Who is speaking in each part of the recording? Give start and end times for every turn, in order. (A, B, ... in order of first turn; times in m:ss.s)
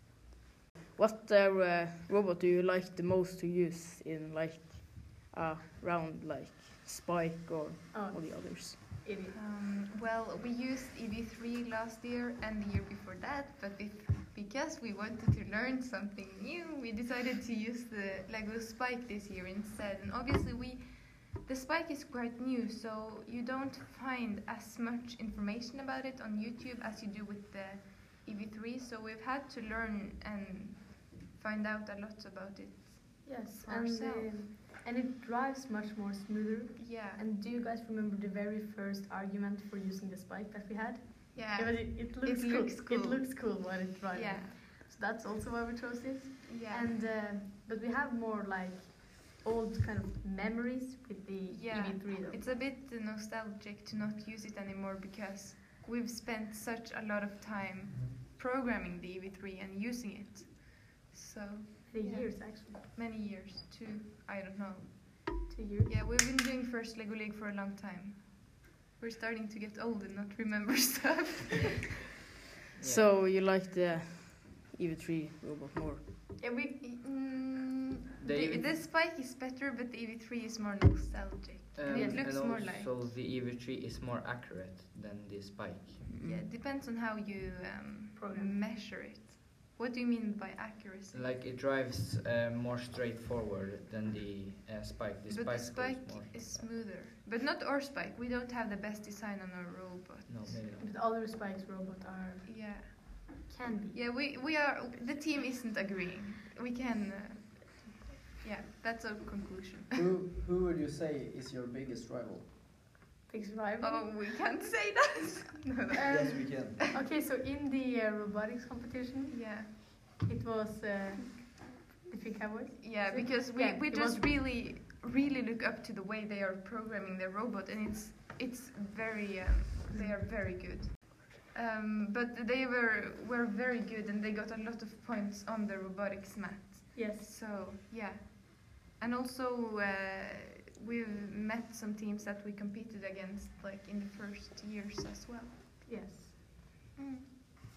0:00.9-0:08.8 A
0:07.9-0:09.4 B
0:09.3-0:34.4 C
0:33.2-0:52.5 B
0:36.8-0:37.2 C
0:41.3-0:43.5 C
0:44.1-0:44.6 C
0:46.4-0:46.9 C
0:51.5-1:11.7 C
1:01.9-1:02.8 B
1:05.5-1:05.9 B
1:12.8-1:13.2 D
1:12.8-1:16.0 A
1:16.4-1:16.8 B
1:16.8-1:23.1 C
1:18.2-1:18.8 D
1:21.7-1:26.4 D
1:21.9-1:22.2 B
1:26.1-1:31.3 C
1:28.2-1:28.5 B
1:31.1-1:36.7 D
1:35.3-1:40.6 C
1:40.3-1:40.9 D
1:40.6-1:44.0 B
1:42.4-1:43.3 C
1:43.9-1:50.0 C
1:50.1-1:52.4 E
1:53.3-1:54.2 B
1:53.8-1:56.6 C
1:55.9-2:04.2 B
1:56.1-1:56.8 E
1:59.3-1:59.7 C
2:02.8-2:25.6 C
2:09.9-2:10.2 B
2:16.9-2:17.3 B
2:25.8-2:26.4 B
2:27.0-2:27.3 C